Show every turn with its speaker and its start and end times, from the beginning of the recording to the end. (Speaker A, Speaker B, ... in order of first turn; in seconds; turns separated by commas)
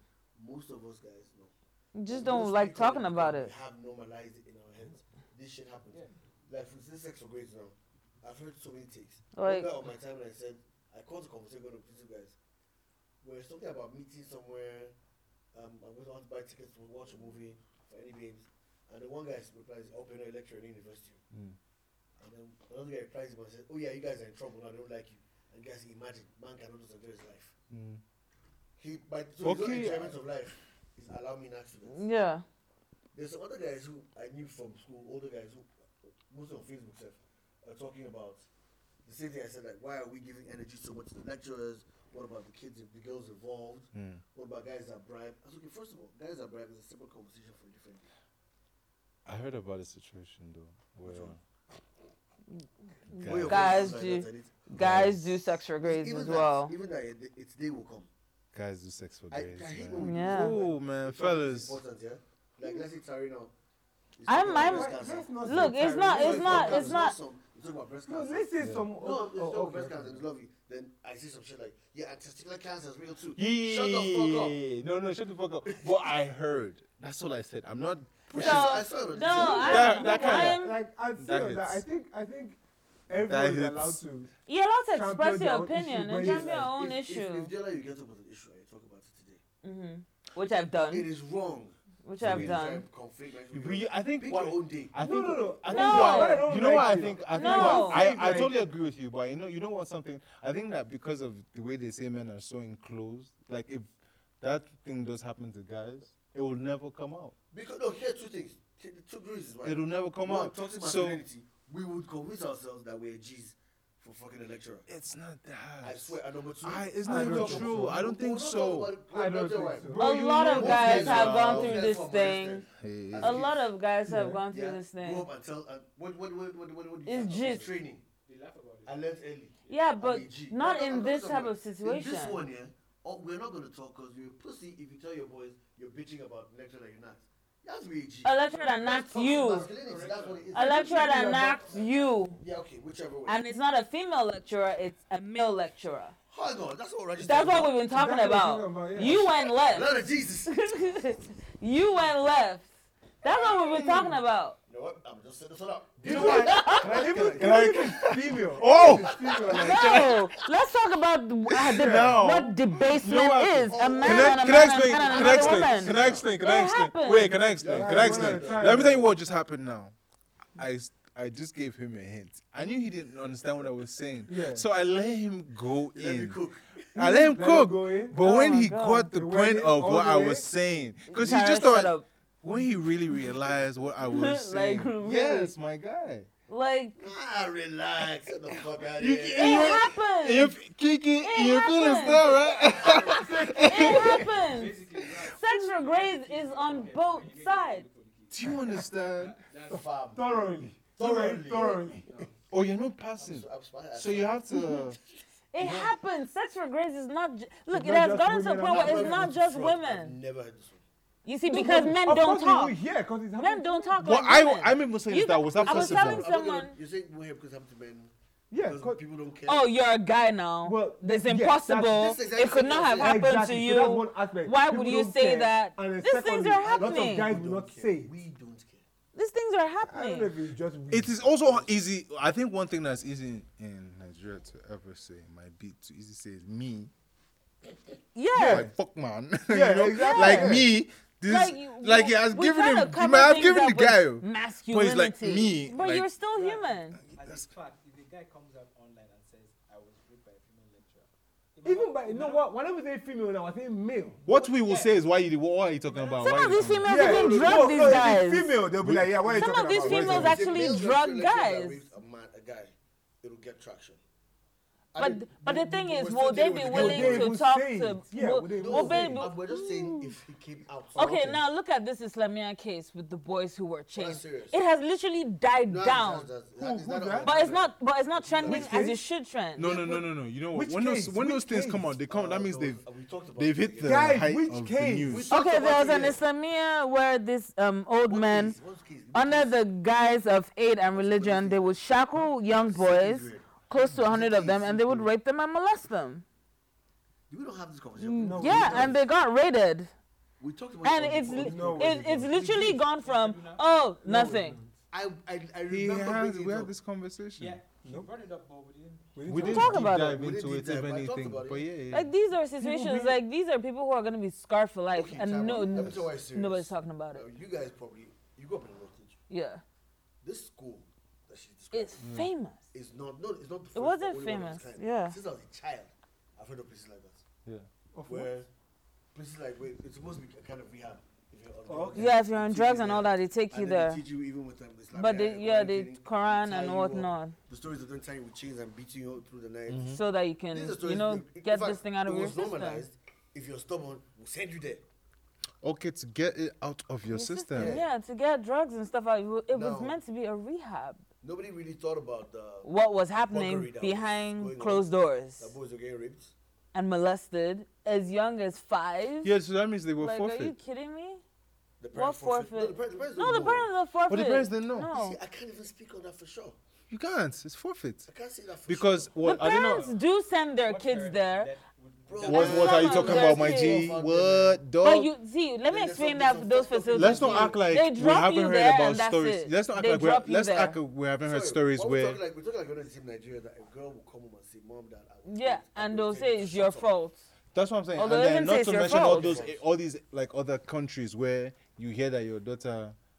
Speaker A: 0.4-1.5, Speaker B: 1.9-3.5, Speaker A: 2.1-12.4, Speaker B: 9.3-9.7, Speaker A: 13.2-14.9, Speaker A: 15.5-21.2, Speaker C: 21.3-21.6, Speaker A: 22.2-27.5, Speaker C: 27.7-28.0, Speaker A: 28.8-32.1, Speaker C: 29.4-30.2, Speaker B: 31.9-32.4, Speaker A: 33.1-35.7, Speaker A: 36.3-38.5, Speaker A: 39.0-48.1, Speaker C: 43.9-44.2, Speaker C: 49.3-51.4, Speaker A: 51.0-51.4, Speaker B: 53.1-56.8, Speaker C: 53.1-54.0, Speaker A: 53.2-55.1, Speaker C: 54.8-55.2, Speaker A: 55.8-58.1, Speaker C: 58.5-61.8, Speaker A: 59.3-63.5, Speaker B: 60.0-60.6, Speaker A: 64.2-65.3, Speaker B: 64.3-67.2, Speaker D: 64.5-67.0, Speaker A: 66.0-74.6, Speaker D: 68.1-70.2, Speaker C: 68.6-68.9, Speaker C: 73.4-80.6, Speaker A: 78.3-80.3, Speaker B: 78.3-80.8, Speaker D: 79.3-82.6, Speaker C: 81.2-81.8, Speaker D: 83.1-84.3, Speaker C: 83.2-84.0, Speaker B: 84.5-87.5, Speaker D: 84.9-86.7, Speaker A: 86.2-89.4, Speaker B: 89.6-91.1, Speaker A: 90.8-95.0, Speaker B: 92.0-92.8, Speaker C: 92.2-92.7, Speaker C: 93.5-103.9, Speaker D: 95.0-98.6, Speaker B: 95.7-96.6, Speaker A: 96.7-97.1, Speaker B: 97.3-98.0, Speaker C: 104.4-107.3, Speaker A: 107.5-114.9, Speaker C: 109.6-111.2, Speaker C: 114.9-118.9, Speaker A: 115.8-123.7, Speaker D: 117.0-118.0, Speaker D: 119.1-120.5, Speaker C: 119.9-121.9, Speaker B: 120.0-122.6, Speaker C: 122.8-123.5, Speaker B: 123.2-125.3, Speaker D: 124.1-124.4, Speaker A: 124.5-128.0, Speaker B: 127.0-127.7, Speaker E: 128.2-129.1, Speaker A: 128.8-143.5, Speaker E: 129.6-129.9, Speaker B: 129.7-132.4, Speaker B: 138.2-139.7, Speaker E: 139.3-142.1, Speaker B: 140.5-142.4, Speaker D: 140.9-141.6, Speaker B: 143.3-146.2, Speaker A: 146.3-147.8, Speaker B: 147.2-149.9, Speaker D: 147.9-149.3, Speaker A: 149.1-150.7, Speaker B: 150.5-152.7, Speaker B: 153.2-154.6, Speaker C: 153.6-154.2, Speaker A: 154.7-157.7, Speaker D: 156.0-160.1, Speaker C: 156.0-160.3, Speaker B: 156.1-156.9, Speaker A: 158.6-160.1, Speaker B: 159.6-167.4, Speaker C: 161.6-169.9, Speaker D: 161.7-162.2, Speaker A: 163.7-166.3, Speaker A: 167.3-169.1, Speaker D: 167.6-169.1, Speaker C: 170.6-176.4, Speaker D: 174.3-174.7, Speaker A: 175.9-176.8, Speaker D: 176.9-178.2, Speaker C: 176.9-186.3, Speaker B: 178.2-179.1, Speaker D: 179.1-180.5, Speaker B: 181.1-182.1, Speaker B: 184.1-185.5, Speaker B: 186.5-187.0, Speaker A: 187.0-189.8, Speaker C: 188.5-194.2, Speaker B: 189.4-190.6, Speaker B: 191.2-192.3, Speaker D: 193.0-194.2, Speaker B: 193.6-197.9, Speaker E: 194.1-199.8, Speaker C: 198.3-199.4, Speaker A: 199.7-200.4, Speaker D: 199.7-202.1, Speaker A: 201.0-202.2, Speaker E: 202.1-202.4, Speaker C: 202.5-205.0, Speaker A: 203.2-204.4, Speaker B: 205.5-210.2, Speaker D: 207.7-209.4, Speaker A: 208.7-210.8, Speaker B: 211.2-212.8, Speaker D: 211.5-213.9, Speaker B: 213.4-216.8, Speaker C: 214.0-216.3, Speaker A: 215.5-219.7, Speaker D: 218.5-219.0, Speaker B: 219.5-227.3, Speaker D: 220.6-222.1, Speaker A: 221.8-223.3, Speaker D: 223.0-228.1, Speaker A: 226.6-228.8, Speaker B: 229.2-230.3, Speaker D: 229.8-231.6, Speaker C: 230.9-236.9, Speaker B: 238.2-238.7, Speaker D: 238.3-238.7, Speaker C: 238.4-246.1, Speaker D: 239.5-240.7, Speaker B: 239.9-240.6, Speaker B: 241.2-247.0, Speaker E: 246.3-252.5, Speaker C: 247.0-247.5, Speaker D: 251.6-254.2, Speaker C: 254.3-257.1, Speaker E: 254.4-255.0, Speaker E: 255.9-256.9, Speaker B: 256.2-258.6, Speaker D: 256.9-260.4, Speaker A: 256.9-258.2, Speaker C: 258.8-259.4, Speaker B: 259.3-261.8, Speaker A: 259.8-264.0, Speaker C: 259.9-260.4, Speaker A: 264.9-267.4, Speaker B: 265.0-269.4, Speaker D: 266.6-270.2, Speaker A: 268.6-271.4, Speaker B: 270.9-276.3, Speaker A: 273.9-274.6, Speaker A: 275.7-278.9, Speaker D: 276.6-277.4, Speaker B: 277.2-279.8, Speaker D: 278.4-279.0, Speaker C: 279.6-282.8, Speaker D: 279.7-280.0, Speaker D: 280.5-281.9, Speaker A: 282.1-284.2, Speaker C: 283.4-285.3, Speaker D: 283.8-285.2, Speaker A: 285.1-286.2, Speaker B: 285.3-288.6, Speaker A: 288.1-289.6, Speaker B: 289.1-296.2, Speaker A: 290.9-295.1, Speaker A: 297.3-299.0, Speaker B: 298.0-299.9, Speaker D: 298.2-299.0, Speaker A: 300.4-302.8, Speaker B: 300.8-304.6, Speaker D: 301.4-302.3, Speaker E: 302.4-303.7, Speaker D: 304.0-304.8, Speaker A: 304.9-306.7, Speaker C: 305.7-307.6, Speaker E: 307.4-309.2, Speaker D: 307.8-308.1, Speaker D: 309.1-309.8, Speaker C: 309.3-312.1, Speaker B: 309.4-310.2, Speaker A: 309.9-311.7, Speaker B: 311.9-317.2, Speaker D: 312.6-313.2, Speaker A: 314.9-319.2, Speaker C: 315.8-316.0, Speaker B: 319.3-319.6, Speaker A: 320.2-322.0, Speaker B: 321.7-322.6, Speaker C: 322.0-322.3, Speaker A: 322.7-327.2, Speaker B: 323.8-325.2, Speaker D: 327.9-328.3, Speaker A: 328.1-328.5, Speaker A: 329.1-340.0, Speaker D: 331.7-332.1, Speaker B: 331.9-334.0, Speaker B: 334.9-337.4, Speaker C: 339.7-340.0, Speaker B: 339.9-342.9, Speaker A: 340.5-344.8, Speaker C: 345.6-347.8, Speaker B: 347.1-351.0, Speaker A: 347.6-347.9, Speaker A: 349.5-350.0, Speaker A: 351.2-352.7, Speaker B: 352.6-355.5, Speaker A: 353.3-356.3, Speaker B: 356.7-359.3, Speaker C: 359.2-360.6, Speaker B: 360.0-361.2, Speaker A: 361.8-363.7, Speaker B: 361.9-365.2, Speaker C: 364.1-364.9, Speaker A: 364.9-366.6, Speaker C: 366.9-368.1, Speaker A: 368.1-369.1, Speaker C: 368.7-369.9, Speaker B: 369.2-371.5, Speaker E: 369.4-370.0, Speaker E: 370.6-373.2, Speaker A: 372.1-374.6, Speaker B: 372.2-373.9, Speaker C: 372.2-375.1, Speaker B: 374.8-380.8, Speaker A: 375.7-377.6, Speaker C: 376.9-382.2, Speaker A: 381.2-386.9, Speaker B: 385.3-387.3, Speaker C: 387.5-393.0, Speaker B: 388.0-389.4, Speaker A: 388.7-389.6